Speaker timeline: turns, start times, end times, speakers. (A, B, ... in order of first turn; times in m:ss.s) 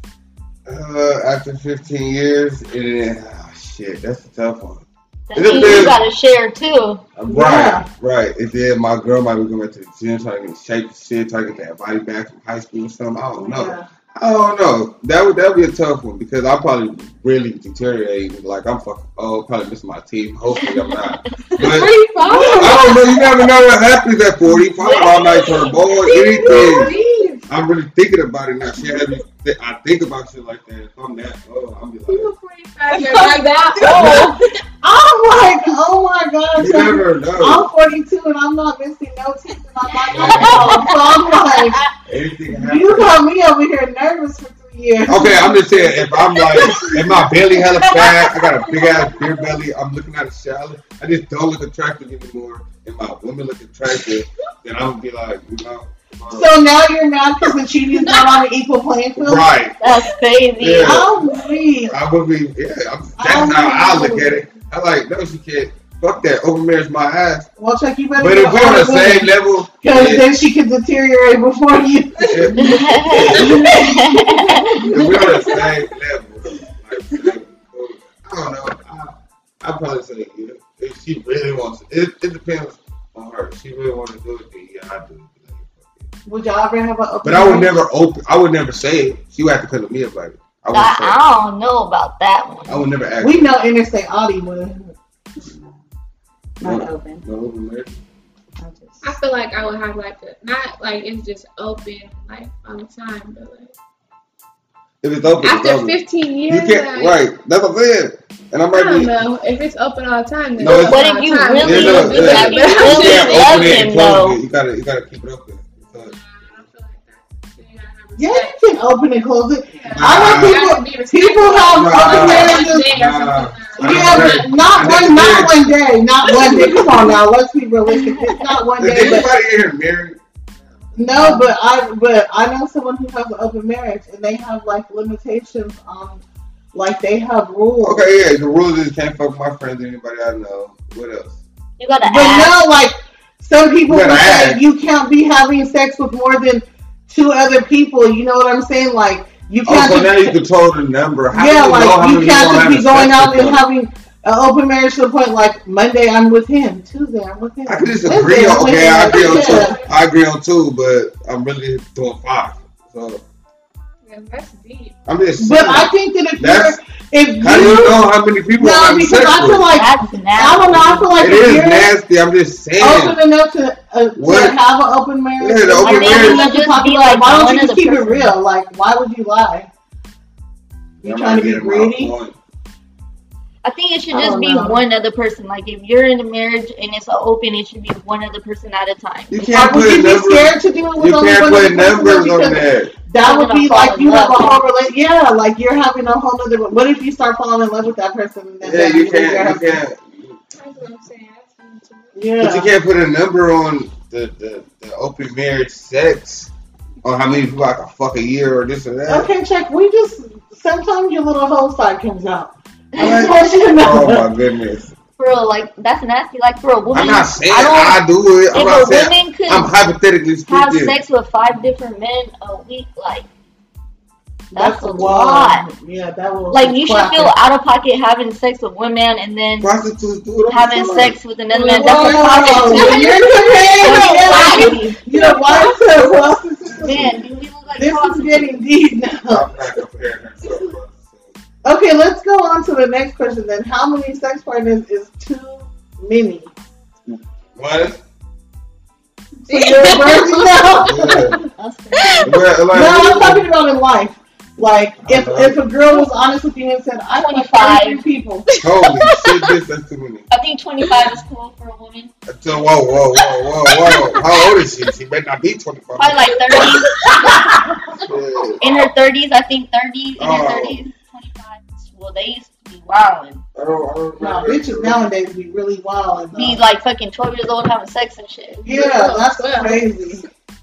0:00.6-0:06.0 A
0:05.3-0:07.0 B
0:05.5-0:05.8 C
0:07.2-0:21.9 A
0:07.3-0:07.9 C
0:13.4-0:13.9 C
0:20.6-0:20.9 B
0:21.6-0:23.2 D
0:22.2-0:23.0 C
0:22.5-0:26.9 A
0:24.8-0:25.8 B
0:25.8-0:27.4 D
0:26.1-0:27.0 C
0:27.5-0:32.3 A
0:32.1-0:34.4 D
0:33.1-0:34.4 B
0:33.1-0:34.2 C
0:34.0-0:34.3 A
0:34.8-0:41.8 C
0:36.6-0:37.7 A
0:40.1-0:41.8 B
0:40.1-0:40.8 A
0:42.1-0:43.2 A
0:42.5-0:47.2 C
0:45.0-0:56.6 A
0:56.3-0:59.5 C
0:59.2-0:59.8 A
0:59.8-1:01.1 B
1:00.6-1:01.1 A
1:00.8-1:01.9 C
1:01.9-1:07.5 A
1:03.2-1:04.4 C
1:07.6-1:15.6 C
1:08.2-1:10.2 A
1:12.2-1:13.8 A
1:12.6-1:14.8 B
1:14.8-1:26.0 A
1:15.1-1:15.7 D
1:26.2-1:27.7 C
1:27.2-1:31.2 A
1:30.7-1:32.9 B
1:32.7-1:33.5 A
1:33.2-1:34.9 C
1:35.4-1:35.7 A
1:36.6-1:37.2 C
1:36.6-1:38.0 A
1:38.6-1:39.1 C
1:39.0-1:43.7 D
1:45.0-1:49.1 A
1:45.4-1:47.2 D
1:48.7-1:53.9 D
1:50.6-1:51.0 A
1:50.7-1:54.4 B
1:51.6-1:56.1 A
1:55.8-1:58.6 D
1:58.2-2:02.9 C
1:59.7-2:04.9 D
1:59.9-2:00.6 A
2:01.7-2:05.6 A
2:03.8-2:09.3 C
2:06.2-2:06.9 D
2:06.3-2:07.2 A
2:08.0-2:08.4 B
2:08.8-2:10.2 A
2:11.0-2:16.2 C
2:11.1-2:11.5 B
2:16.7-2:18.0 C
2:17.8-2:21.4 A
2:21.8-2:22.6 B
2:22.0-2:30.4 C
2:23.9-2:24.6 A
2:29.6-2:33.6 A
2:31.3-2:39.8 C
2:37.6-2:43.2 A
2:39.0-2:39.9 D
2:44.0-2:44.9 D
2:45.0-2:46.8 A
2:45.4-2:48.0 C
2:47.4-2:49.7 A
2:48.6-2:51.9 C
2:49.7-2:51.2 B
2:51.2-2:53.2 A
2:52.8-2:59.7 C
2:54.2-2:54.6 A
2:55.4-2:56.5 A
2:55.8-2:58.3 B
3:01.0-3:02.1 C
3:01.0-3:02.4 A
3:03.6-3:09.8 B
3:04.1-3:04.8 C
3:09.3-3:12.9 A
3:09.5-3:19.8 C
3:13.2-3:14.7 B
3:18.6-3:20.4 A
3:20.5-3:22.2 D
3:22.2-3:22.7 C
3:22.4-3:26.5 A
3:27.0-3:29.3 A
3:29.1-3:34.3 C
3:32.9-3:33.3 B
3:33.0-3:34.9 A
3:35.2-3:38.0 B
3:36.9-3:41.0 A
3:38.5-3:39.7 B
3:40.5-3:43.3 B
3:44.5-3:47.3 C
3:44.5-3:45.6 B
3:46.5-3:49.7 B
3:49.6-3:51.2 A
3:50.5-3:55.0 B
3:51.5-3:56.3 D
3:51.7-3:57.1 C
3:56.7-3:57.2 A
3:56.8-3:58.6 B
3:57.8-3:59.4 C
3:59.3-4:01.3 A
4:01.6-4:06.5 C
4:07.1-4:08.0 A
4:09.4-4:11.4 C
4:09.5-4:11.4 D
4:10.8-4:11.4 A
4:11.3-4:12.3 B
4:12.0-4:12.3 D
4:12.2-4:13.4 A
4:12.7-4:18.5 C
4:15.0-4:15.6 A
4:17.1-4:18.0 B
4:18.5-4:19.5 D
4:18.6-4:20.3 A
4:20.3-4:22.1 B
4:22.2-4:26.6 A
4:23.1-4:24.6 D
4:26.0-4:26.9 B
4:26.5-4:27.4 D
4:28.0-4:28.6 A
4:28.6-4:33.4 B
4:30.2-4:30.8 A
4:33.5-4:35.0 A
4:34.2-4:36.6 C
4:36.4-4:38.6 B
4:38.6-4:40.2 C
4:38.6-4:40.2 D